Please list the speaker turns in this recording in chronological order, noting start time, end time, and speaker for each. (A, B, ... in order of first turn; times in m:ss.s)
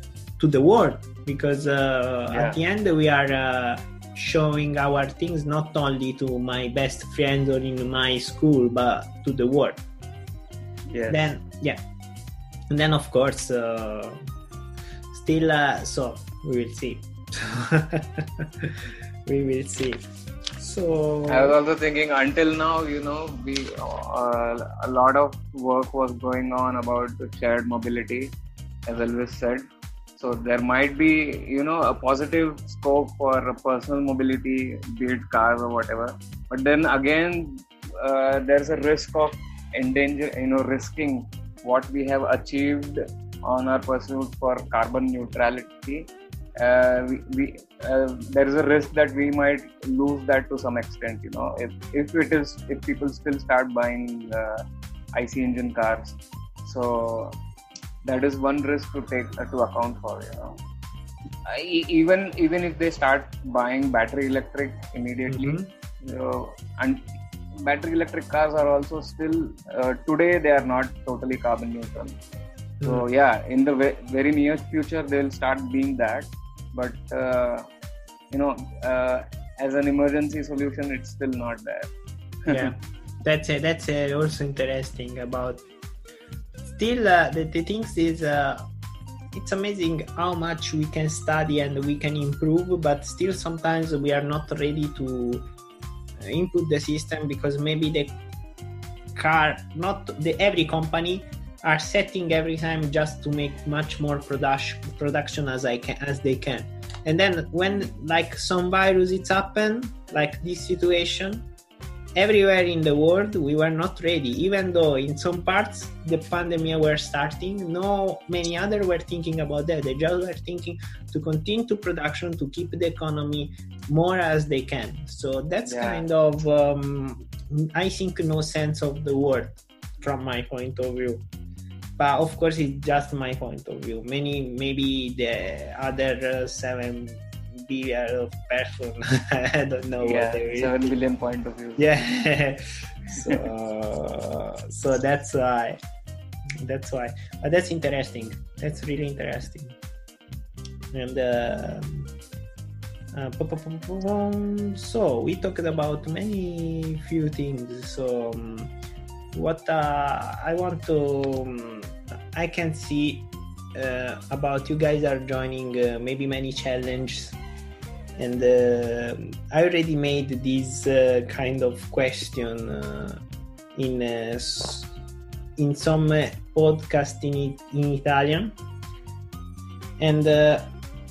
0:00.4-0:09.8 A
0:02.3-0:02.6 B
0:10.9-0:11.3 B
0:11.1-0:11.8 A
0:12.7-0:14.2 A
0:15.1-0:20.0 A
0:20.6-0:21.5 A
0:21.3-0:28.3 B
0:28.9-0:57.4 B
0:58.0-1:00.6 B
1:01.4-1:07.1 B
1:05.3-1:05.7 A
1:07.6-1:12.2 B
1:12.8-1:13.0 A
1:12.8-1:17.7 B
1:18.3-1:21.9 B
1:22.4-1:22.7 B
1:22.5-1:25.6 A
1:26.7-1:28.6 A
1:29.3-1:35.4 A
1:36.2-1:38.1 A
1:39.1-1:51.4 A
1:52.1-2:11.2 A
2:05.6-2:06.0 B
2:12.0-2:20.9 A
2:20.0-2:22.0 B
2:21.8-2:25.8 A
2:23.1-2:23.4 B
2:26.6-2:29.8 A
2:30.9-2:32.1 A
2:33.1-2:38.7 A
2:39.3-2:47.4 A
2:48.2-2:53.2 A
2:53.7-2:54.9 A
2:55.6-2:58.6 A
3:00.0-3:00.7 A